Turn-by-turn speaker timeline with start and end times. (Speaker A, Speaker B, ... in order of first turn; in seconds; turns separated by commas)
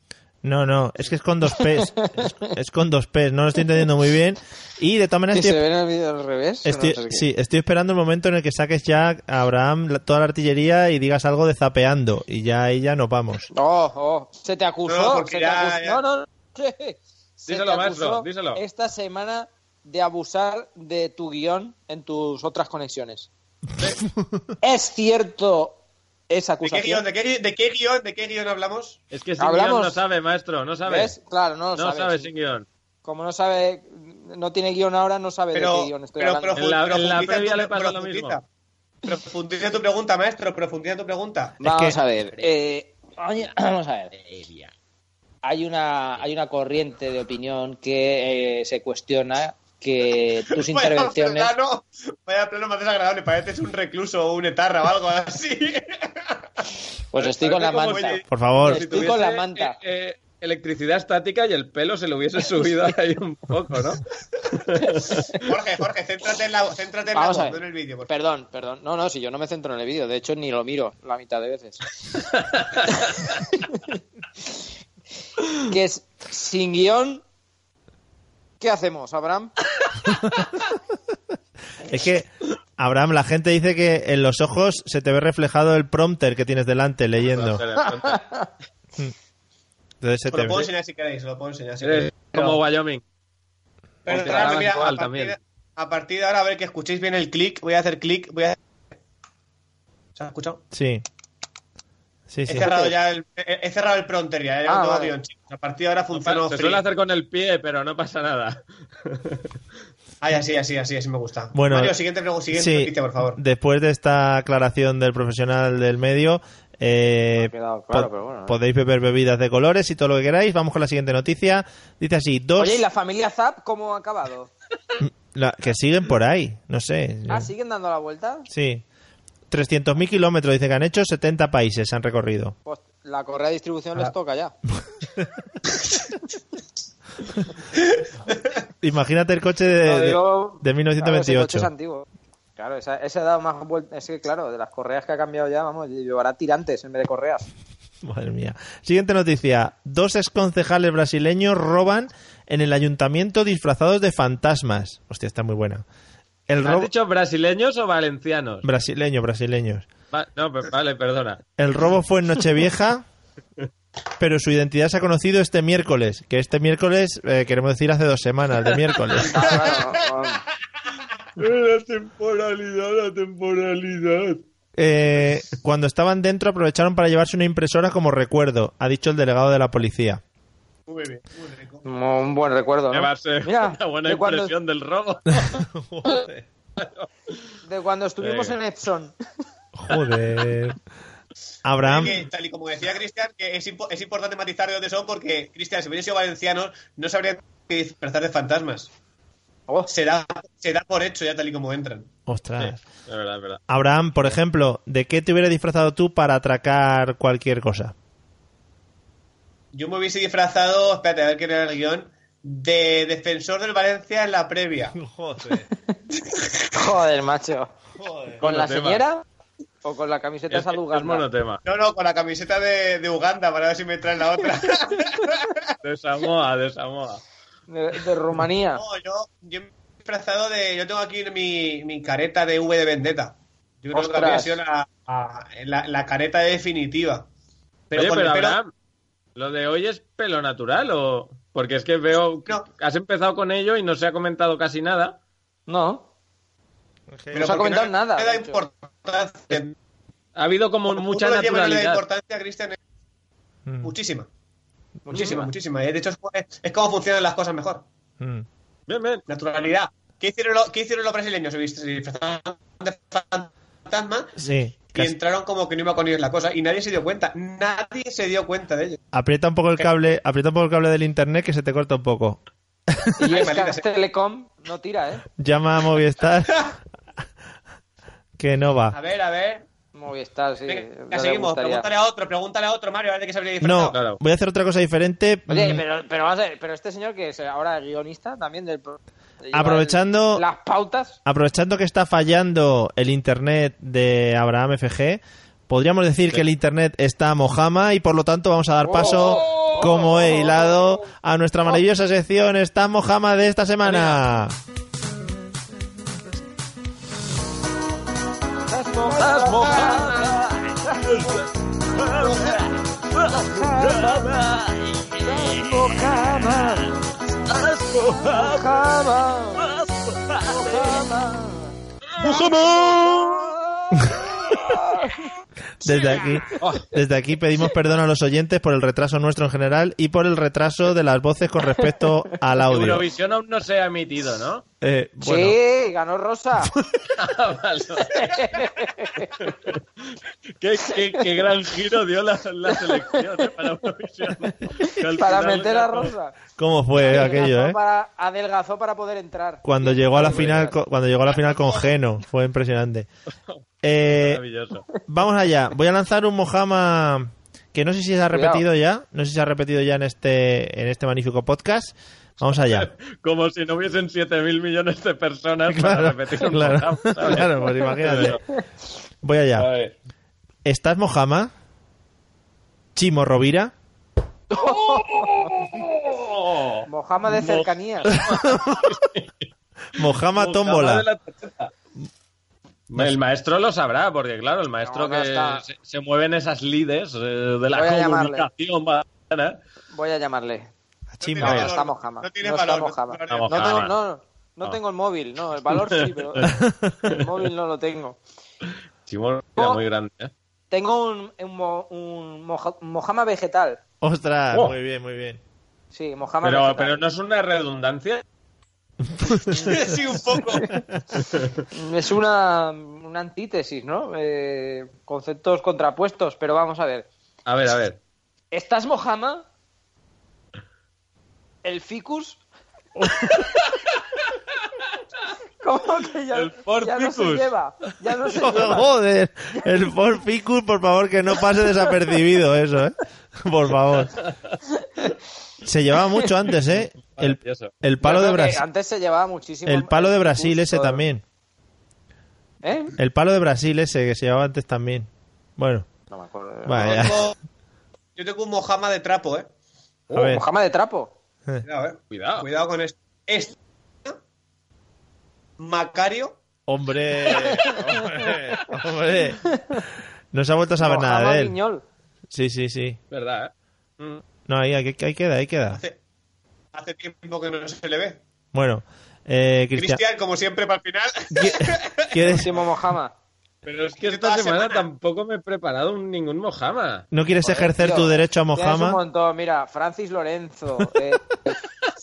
Speaker A: 0.4-5.6, Speaker B: 1.6-2.5, Speaker B: 5.3-7.3, Speaker A: 6.7-13.5, Speaker B: 13.5-23.3, Speaker C: 14.9-16.0, Speaker D: 17.5-18.6, Speaker B: 24.6-25.8, Speaker B: 26.3-27.0, Speaker C: 26.6-29.0, Speaker D: 29.1-31.1, Speaker B: 29.4-30.0, Speaker B: 30.9-32.3, Speaker D: 31.8-32.7, Speaker B: 33.0-36.6, Speaker C: 35.5-38.4, Speaker D: 36.6-38.4, Speaker C: 39.0-41.6, Speaker A: 41.6-42.0, Speaker B: 41.6-44.2, Speaker D: 44.2-44.7, Speaker B: 45.4-51.5, Speaker C: 50.5-56.4, Speaker B: 57.1-59.8, Speaker D: 57.2-64.0, Speaker C: 57.7-58.1, Speaker A: 58.3-58.8, Speaker D: 64.6-65.3, Speaker C: 65.3-68.1, Speaker B: 67.1-71.8, Speaker D: 72.4-72.8, Speaker B: 72.9-74.0, Speaker B: 75.6-77.2, Speaker B: 78.6-79.5, Speaker A: 81.8-87.6, Speaker D: 87.2-88.2, Speaker B: 87.8-88.5, Speaker A: 90.0-90.7, Speaker C: 90.3-92.6, Speaker D: 91.8-93.0, Speaker C: 94.1-98.6, Speaker D: 94.1-95.4, Speaker C: 100.2-100.6, Speaker A: 100.7-101.0, Speaker A: 102.3-102.9, Speaker C: 102.5-106.8, Speaker B: 104.7-105.2, Speaker D: 106.1-109.4, Speaker C: 110.2-113.4, Speaker A: 111.5-112.0, Speaker A: 112.5-122.8, Speaker B: 117.3-118.6, Speaker B: 122.6-124.5, Speaker A: 125.0-127.5, Speaker B: 127.3-128.5, Speaker A: 128.5-128.8, Speaker A: 129.5-132.6, Speaker B: 132.7-134.5, Speaker A: 138.8-141.7, Speaker B: 139.8-142.1, Speaker B: 142.6-147.5, Speaker A: 148.0-155.8, Speaker A: 156.5-156.9, Speaker D: 156.6-158.7, Speaker A: 158.6-159.9, Speaker D: 160.1-161.4, Speaker A: 161.6-163.1, Speaker A: 164.2-169.7, Speaker B: 169.2-170.4, Speaker C: 169.5-169.9, Speaker D: 171.4-174.4, Speaker A: 174.8-180.2, Speaker C: 180.9-181.8, Speaker B: 181.8-184.5, Speaker D: 182.9-185.6, Speaker A: 185.4-186.4, Speaker D: 186.8-187.3, Speaker B: 187.6-189.1, Speaker D: 188.2-188.6, Speaker A: 189.8-190.8, Speaker A: 191.7-192.2, Speaker C: 191.8-198.9, Speaker C: 199.9-202.1, Speaker A: 202.3-202.8, Speaker D: 202.6-203.6, Speaker A: 203.7-207.9, Speaker C: 209.7-215.0, Speaker A: 214.9-215.7, Speaker B: 216.7-217.7, Speaker A: 218.0-218.4, Speaker D: 218.4-219.0, Speaker B: 218.4-219.2, Speaker B: 219.8-221.2, Speaker D: 220.5-221.6, Speaker C: 221.7-225.7, Speaker D: 225.8-227.2, Speaker B: 227.7-228.8, Speaker C: 228.8-237.3, Speaker B: 233.9-234.6, Speaker C: 237.9-238.6, Speaker D: 237.9-238.7, Speaker D: 239.4-245.2, Speaker B: 245.7-246.1, Speaker A: 247.1-247.5, Speaker C: 247.3-249.8, Speaker B: 247.3-248.6, Speaker D: 250.4-252.0, Speaker C: 250.9-252.8, Speaker A: 253.7-253.9, Speaker C: 253.8-254.3, Speaker B: 255.1-255.5, Speaker C: 255.1-257.9, Speaker A: 258.2-258.5, Speaker D: 258.9-259.2, Speaker C: 259.3-264.4, Speaker A: 264.4-265.1, Speaker C: 264.9-269.0, Speaker A: 269.1-272.4, Speaker B: 273.2-275.2, Speaker C: 273.3-273.9, Speaker A: 275.4-276.8, Speaker A: 278.4-279.0, Speaker C: 278.9-279.7, Speaker B: 279.9-281.9, Speaker C: 280.7-284.0, Speaker A: 283.6-285.8, Speaker D: 283.9-284.2, Speaker B: 285.5-291.2, Speaker A: 289.5-290.4, Speaker A: 291.2-304.6, Speaker B: 298.8-300.8, Speaker D: 299.0-300.1, Speaker D: 303.9-304.2, Speaker B: 308.7-311.3, Speaker D: 309.1-316.0, Speaker C: 309.6-310.0, Speaker C: 312.2-312.6, Speaker B: 313.3-314.3, Speaker B: 315.2-317.0, Speaker D: 317.5-318.9, Speaker B: 318.2-319.8, Speaker D: 319.6-321.0, Speaker B: 320.5-325.3, Speaker D: 322.1-323.5, Speaker A: 324.0-324.3, Speaker A: 325.8-333.1, Speaker B: 325.9-326.2, Speaker D: 326.6-326.9, Speaker D: 332.7-334.6, Speaker A: 334.8-335.6, Speaker B: 335.2-336.7, Speaker D: 337.1-338.3, Speaker B: 338.1-339.5, Speaker D: 339.4-346.1, Speaker B: 342.7-343.2, Speaker B: 344.8-346.4, Speaker A: 346.6-347.8, Speaker B: 347.0-350.8, Speaker A: 349.6-353.1, Speaker D: 350.2-350.7, Speaker D: 353.5-354.9, Speaker A: 353.8-354.4, Speaker A: 355.1-362.9, Speaker B: 358.3-358.6, Speaker D: 362.4-368.4, Speaker A: 365.7-368.4, Speaker A: 369.2-369.7, Speaker D: 369.6-369.9, Speaker A: 370.6-371.5, Speaker A: 373.0-373.7, Speaker B: 374.5-375.6, Speaker D: 374.6-379.5, Speaker B: 376.9-378.2, Speaker A: 378.1-378.9, Speaker A: 379.9-381.1, Speaker D: 380.0-381.7, Speaker D: 382.9-389.6, Speaker B: 384.8-385.6, Speaker B: 387.7-388.5, Speaker B: 389.9-390.7, Speaker A: 391.1-391.7, Speaker C: 391.2-393.9, Speaker D: 391.4-391.7, Speaker B: 391.4-396.5, Speaker D: 393.3-393.9, Speaker D: 395.7-396.5, Speaker A: 396.4-397.0, Speaker B: 397.1-398.2, Speaker D: 399.1-400.3, Speaker B: 400.7-403.8, Speaker A: 404.0-405.4, Speaker B: 405.9-407.0, Speaker D: 406.4-408.2, Speaker A: 409.1-409.8, Speaker C: 409.6-410.8, Speaker D: 411.2-411.6, Speaker B: 411.7-417.1, Speaker D: 417.5-418.0, Speaker B: 418.5-419.4, Speaker B: 421.6-422.4, Speaker B: 425.6-428.9, Speaker D: 426.3-427.5, Speaker A: 428.4-434.2, Speaker D: 434.2-434.6, Speaker B: 434.8-435.1, Speaker A: 435.6-438.6, Speaker D: 436.7-437.7, Speaker B: 438.0-441.0, Speaker A: 439.7-441.2, Speaker B: 442.6-442.9, Speaker A: 443.0-445.9, Speaker B: 446.1-447.1, Speaker A: 446.7-447.3, Speaker C: 446.8-447.4, Speaker C: 448.2-449.5, Speaker B: 450.1-451.1, Speaker A: 450.1-450.4, Speaker C: 451.6-454.2, Speaker D: 452.1-452.5, Speaker C: 455.6-456.4, Speaker A: 456.7-459.6, Speaker B: 457.3-458.2, Speaker B: 459.5-459.8, Speaker A: 460.3-461.6, Speaker B: 460.8-461.8, Speaker A: 462.3-463.0, Speaker D: 463.1-464.2, Speaker A: 464.5-465.8, Speaker C: 465.7-466.0, Speaker C: 466.7-468.2, Speaker A: 468.5-470.0, Speaker C: 469.8-472.5, Speaker A: 471.3-472.5, Speaker B: 472.3-473.1, Speaker D: 473.6-477.1, Speaker C: 474.0-474.9, Speaker A: 477.1-479.0, Speaker B: 477.4-481.6